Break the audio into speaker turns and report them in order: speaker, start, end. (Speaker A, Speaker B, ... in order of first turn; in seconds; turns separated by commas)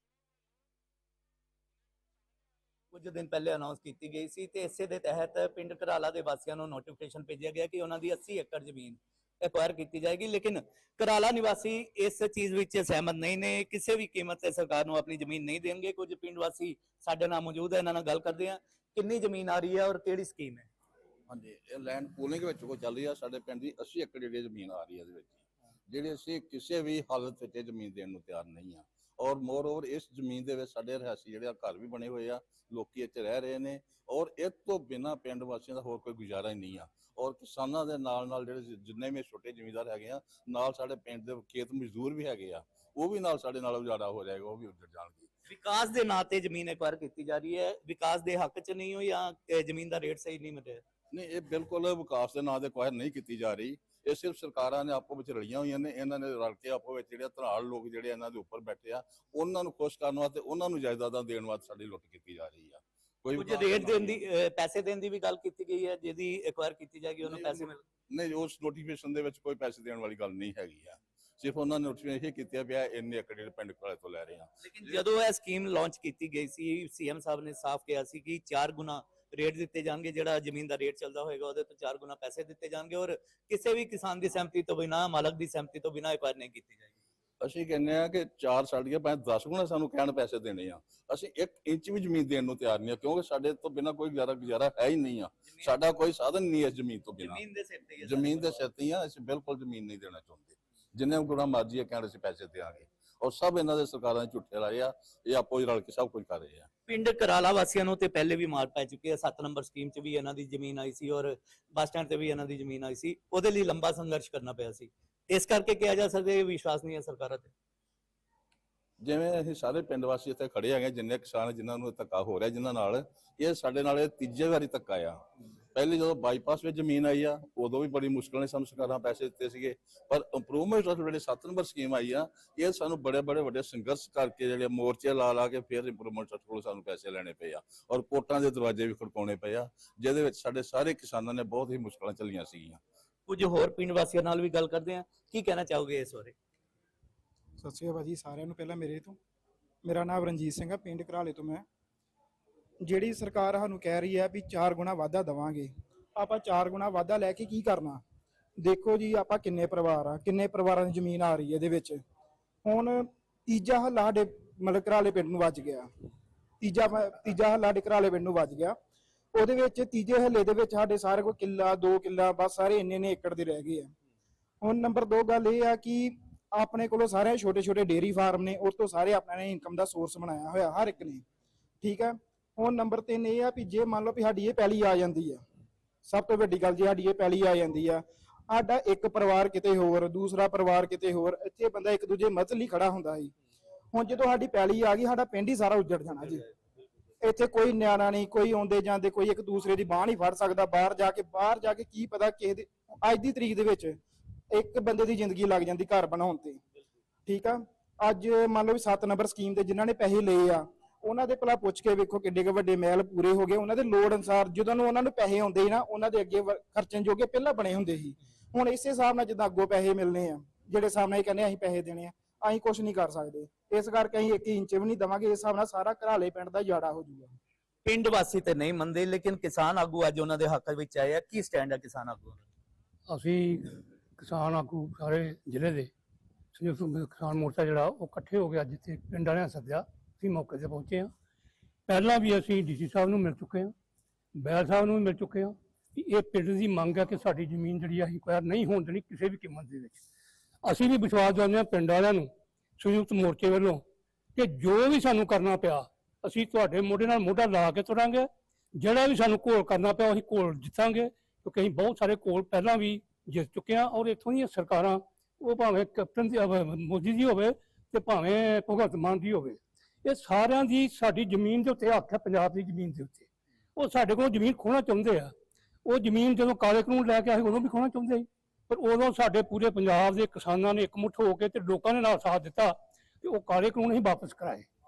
Speaker A: 2.9-20.7, Speaker B: 21.3-45.3, Speaker A: 45.5-50.8, Speaker B: 51.1-64.2, Speaker A: 63.3-67.8, Speaker B: 67.2-75.0, Speaker A: 74.6-86.9, Speaker B: 87.4-97.4, Speaker A: 95.5-95.7, Speaker A: 97.2-98.6, Speaker B: 98.0-106.7, Speaker A: 106.9-117.5, Speaker B: 119.0-125.2, Speaker B: 125.7-142.8, Speaker A: 143.3-146.3, Speaker C: 147.6-149.2, Speaker C: 149.8-151.6, Speaker C: 152.8-158.0, Speaker C: 158.6-162.0, Speaker C: 162.6-165.9, Speaker C: 166.6-168.8, Speaker C: 169.3-173.9, Speaker C: 174.6-181.2, Speaker C: 181.8-185.4, Speaker C: 186.1-193.3, Speaker C: 193.9-196.4, Speaker C: 197.2-204.0, Speaker C: 204.5-206.6, Speaker C: 207.2-227.3, Speaker A: 227.8-232.4, Speaker D: 233.1-235.9, Speaker D: 236.5-241.1, Speaker D: 241.9-243.7, Speaker D: 244.3-250.0, Speaker D: 250.6-253.8, Speaker D: 254.3-275.3, Speaker D: 275.8-284.7